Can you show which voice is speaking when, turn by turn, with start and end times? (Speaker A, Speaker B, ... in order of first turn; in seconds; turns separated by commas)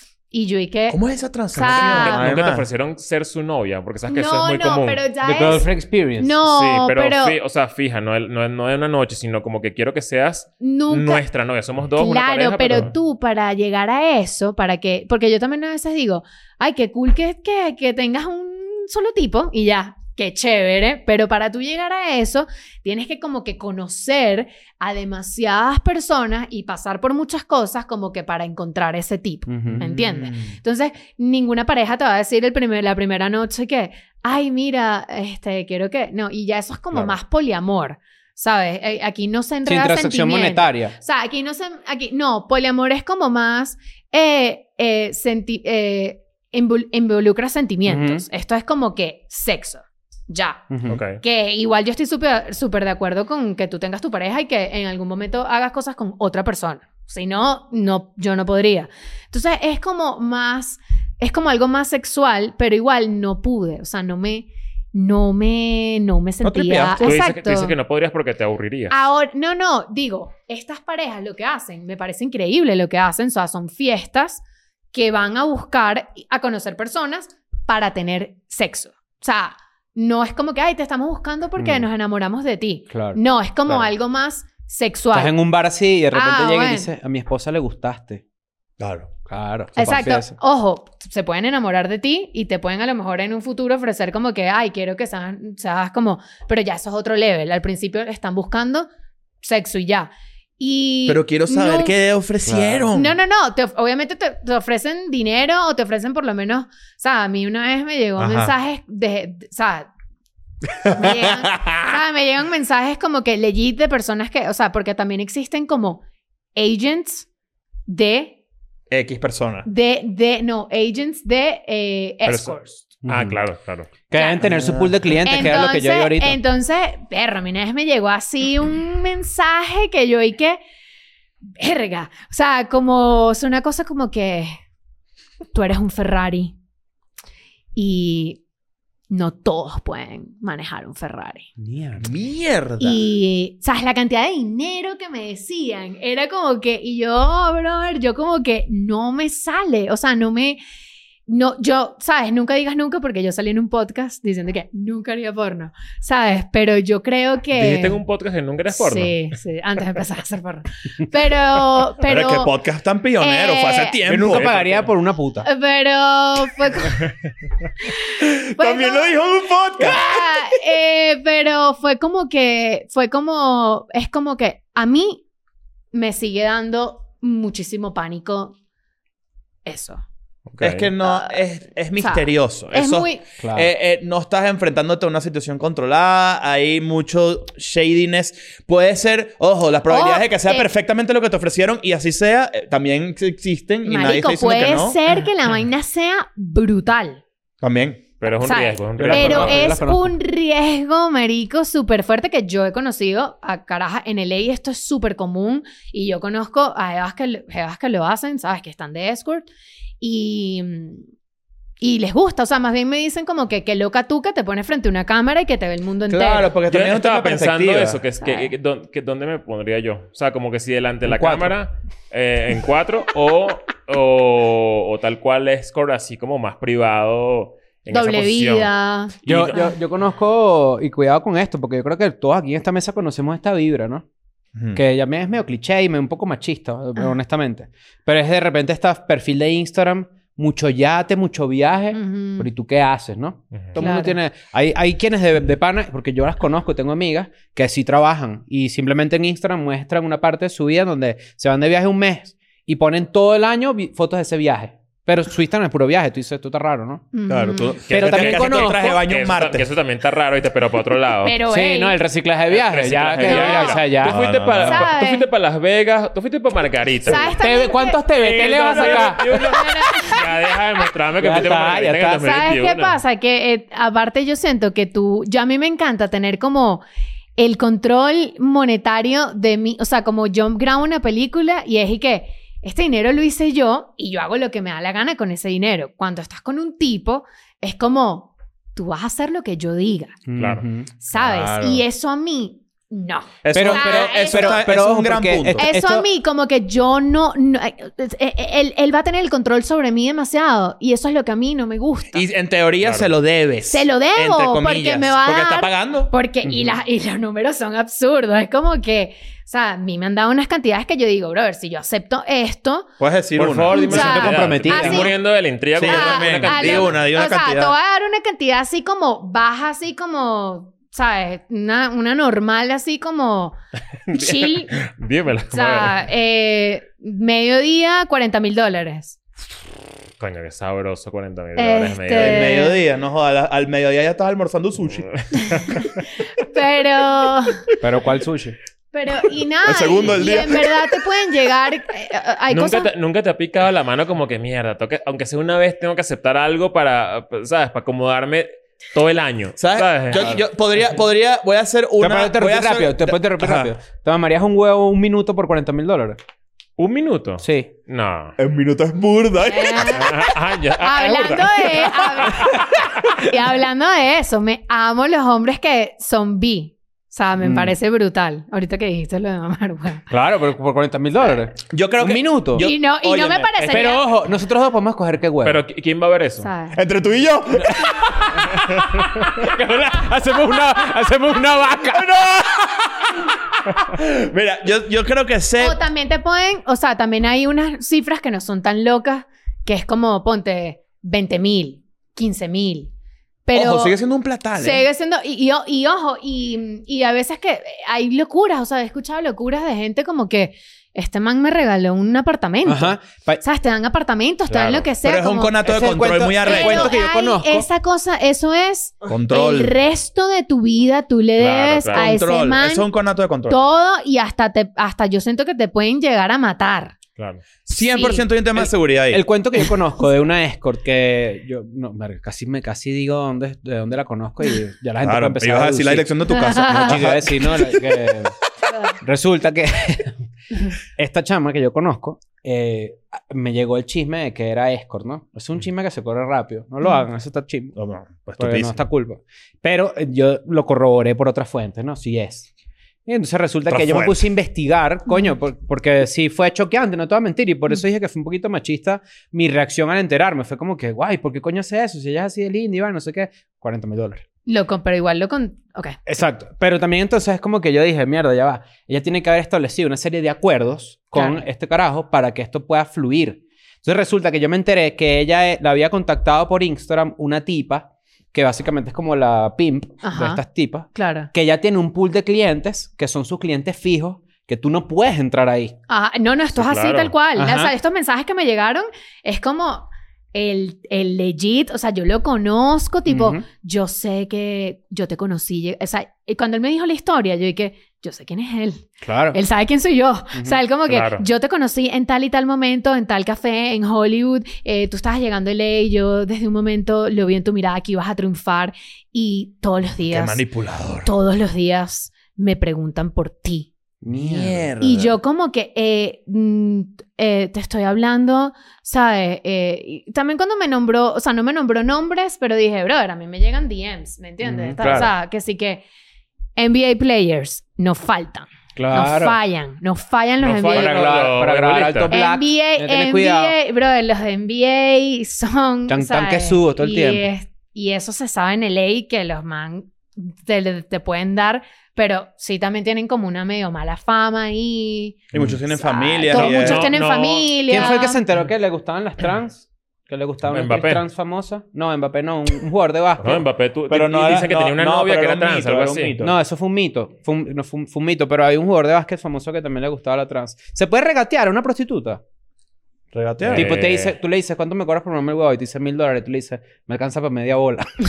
Speaker A: 0.3-1.0, Speaker B: 0.9-2.6, Speaker A: 1.5-2.2, Speaker C: 1.6-5.0, Speaker A: 4.1-7.4, Speaker D: 5.2-6.4, Speaker C: 6.5-12.9, Speaker A: 10.6-11.2, Speaker A: 12.0-50.6, Speaker D: 29.5-30.1, Speaker B: 29.8-30.6, Speaker D: 39.6-41.0, Speaker D: 47.9-48.2, Speaker D: 50.7-51.0, Speaker C: 50.9-51.2, Speaker A: 51.2-67.7, Speaker B: 66.4-67.1, Speaker C: 67.0-69.0, Speaker A: 68.9-85.4, Speaker D: 81.6-81.8, Speaker D: 82.9-83.2, Speaker D: 85.1-88.2, Speaker A: 86.1-86.9, Speaker B: 88.8-89.1, Speaker D: 89.2-90.3, Speaker A: 89.7-98.9, Speaker A: 99.4-101.9, Speaker B: 101.1-103.2, Speaker D: 102.4-102.9, Speaker A: 102.9-109.9, Speaker B: 108.2-108.5, Speaker B: 110.8-111.9, Speaker A: 110.9-116.0, Speaker A: 116.5-117.3, Speaker A: 117.9-118.4, Speaker B: 118.9-119.7, Speaker A: 119.6-122.8, Speaker C: 122.2-123.9, Speaker D: 123.0-123.4, Speaker D: 124.1-126.4, Speaker A: 124.1-124.4, Speaker B: 124.4-125.0, Speaker A: 125.2-130.6, Speaker A: 131.6-134.6, Speaker A: 135.5-136.6, Speaker A: 137.7-138.4, Speaker A: 139.1-141.5, Speaker D: 141.6-142.1, Speaker B: 142.0-143.0, Speaker A: 142.8-150.6, Speaker A: 151.2-158.0, Speaker C: 157.5-159.3, Speaker A: 158.7-162.5, Speaker B: 162.1-164.8, Speaker A: 163.2-164.0, Speaker D: 164.0-165.5, Speaker A: 165.4-167.1, Speaker B: 168.2-170.4, Speaker A: 168.6-169.1, Speaker A: 169.8-175.2, Speaker A: 175.9-178.6, Speaker A: 179.7-180.0, Speaker C: 180.5-180.9, Speaker B: 180.6-195.0, Speaker A: 181.0-181.4, Speaker A: 182.0-183.2, Speaker D: 183.4-183.7, Speaker A: 189.9-190.7, Speaker A: 193.8-197.2, Speaker B: 197.6-198.0, Speaker C: 198.2-199.7, Speaker A: 198.4-209.5, Speaker D: 199.0-200.2, Speaker A: 210.0-211.0, Speaker A: 211.8-216.5, Speaker B: 216.1-218.0, Speaker C: 216.7-228.7, Speaker A: 218.2-218.5, Speaker D: 221.0-221.5, Speaker A: 227.9-229.7, Speaker C: 229.2-229.6, Speaker D: 229.2-234.0, Speaker B: 234.6-234.8, Speaker D: 234.7-257.1, Speaker A: 241.9-242.5, Speaker A: 243.8-244.2, Speaker A: 257.1-257.8, Speaker B: 257.3-259.7, Speaker C: 257.9-261.4, Speaker D: 257.9-259.0, Speaker A: 261.2-262.0, Speaker D: 261.5-264.2, Speaker C: 262.5-267.3, Speaker A: 263.2-263.8, Speaker B: 264.0-264.9, Speaker A: 264.6-265.3, Speaker A: 267.0-268.0, Speaker D: 267.1-270.1, Speaker B: 268.2-269.2, Speaker C: 268.3-273.0, Speaker A: 269.4-270.5, Speaker D: 271.2-272.3, Speaker A: 272.2-276.8, Speaker A: 277.4-290.2, Speaker D: 290.3-290.9, Speaker C: 290.4-290.6, Speaker A: 291.0-294.6, Speaker B: 291.1-291.8, Speaker B: 293.4-295.7, Speaker D: 293.5-296.1, Speaker A: 295.6-302.2, Speaker B: 302.1-306.1, Speaker C: 302.8-303.1, Speaker A: 303.7-312.9, Speaker D: 306.4-306.8, Speaker B: 313.0-313.8, Speaker C: 313.4-317.0, Speaker D: 313.4-315.1, Speaker A: 313.7-315.1, Speaker B: 315.8-317.7, Speaker A: 315.8-323.6, Speaker C: 324.1-326.0, Speaker A: 324.1-324.8, Speaker A: 325.5-329.2, Speaker C: 330.2-332.7, Speaker A: 331.6-332.8, Speaker B: 332.1-335.8, Speaker A: 335.3-337.7, Speaker D: 337.8-338.6, Speaker A: 338.9-342.9, Speaker B: 339.6-340.9, Speaker C: 342.5-350.4, Speaker B: 349.6-353.7, Speaker D: 352.0-356.2, Speaker C: 356.8-358.4, Speaker D: 357.4-357.7, Speaker B: 358.4-360.3, Speaker A: 359.4-370.1, Speaker C: 359.9-362.1, Speaker D: 367.4-367.7, Speaker D: 370.1-372.7, Speaker B: 371.7-373.8, Speaker A: 372.6-374.1, Speaker D: 373.6-375.6, Speaker C: 375.4-376.5, Speaker A: 376.4-376.8, Speaker B: 376.7-378.2, Speaker D: 377.6-382.1, Speaker B: 381.9-383.2, Speaker B: 383.7-385.8, Speaker A: 385.6-392.9, Speaker A: 393.4-393.9, Speaker B: 393.5-394.8, Speaker A: 394.5-405.6, Speaker D: 402.6-403.4, Speaker C: 404.5-404.9, Speaker B: 405.0-406.9, Speaker D: 405.6-407.7, Speaker A: 406.4-412.9, Speaker B: 409.1-409.8, Speaker C: 411.4-412.1, Speaker B: 411.9-413.6, Speaker A: 413.5-416.9, Speaker B: 417.6-419.2, Speaker A: 417.8-418.3, Speaker D: 418.5-428.4, Speaker B: 425.0-428.1, Speaker A: 426.3-427.0, Speaker D: 428.9-430.2, Speaker D: 430.9-437.7, Speaker B: 437.7-438.8, Speaker D: 438.4-442.5, Speaker D: 443.1-454.2, Speaker B: 443.7-444.3, Speaker A: 454.4-456.0, Speaker D: 456.1-475.8, Speaker A: 461.1-461.4, Speaker A: 470.0-471.3, Speaker A: 475.9-500.4, Speaker C: 476.5-477.1, Speaker D: 477.4-477.7, Speaker D: 483.1-483.4, Speaker D: 489.0-489.4, Speaker C: 490.9-491.2, Speaker B: 500.1-501.1, Speaker A: 501.0-503.7, Speaker D: 504.0-504.7, Speaker B: 504.1-505.1, Speaker A: 504.8-515.8, Speaker D: 514.4-515.1, Speaker A: 516.5-521.1, Speaker D: 518.8-519.4, Speaker C: 520.4-522.1, Speaker D: 520.7-523.6, Speaker A: 522.1-538.2, Speaker D: 525.9-527.3, Speaker B: 535.3-536.9, Speaker D: 535.3-535.6, Speaker C: 536.4-537.9, Speaker D: 537.7-543.4, Speaker C: 540.5-541.0, Speaker C: 543.2-546.1, Speaker B: 543.9-546.3, Speaker D: 546.2-552.2, Speaker B: 553.1-553.7, Speaker C: 553.4-554.1, Speaker D: 553.4-558.0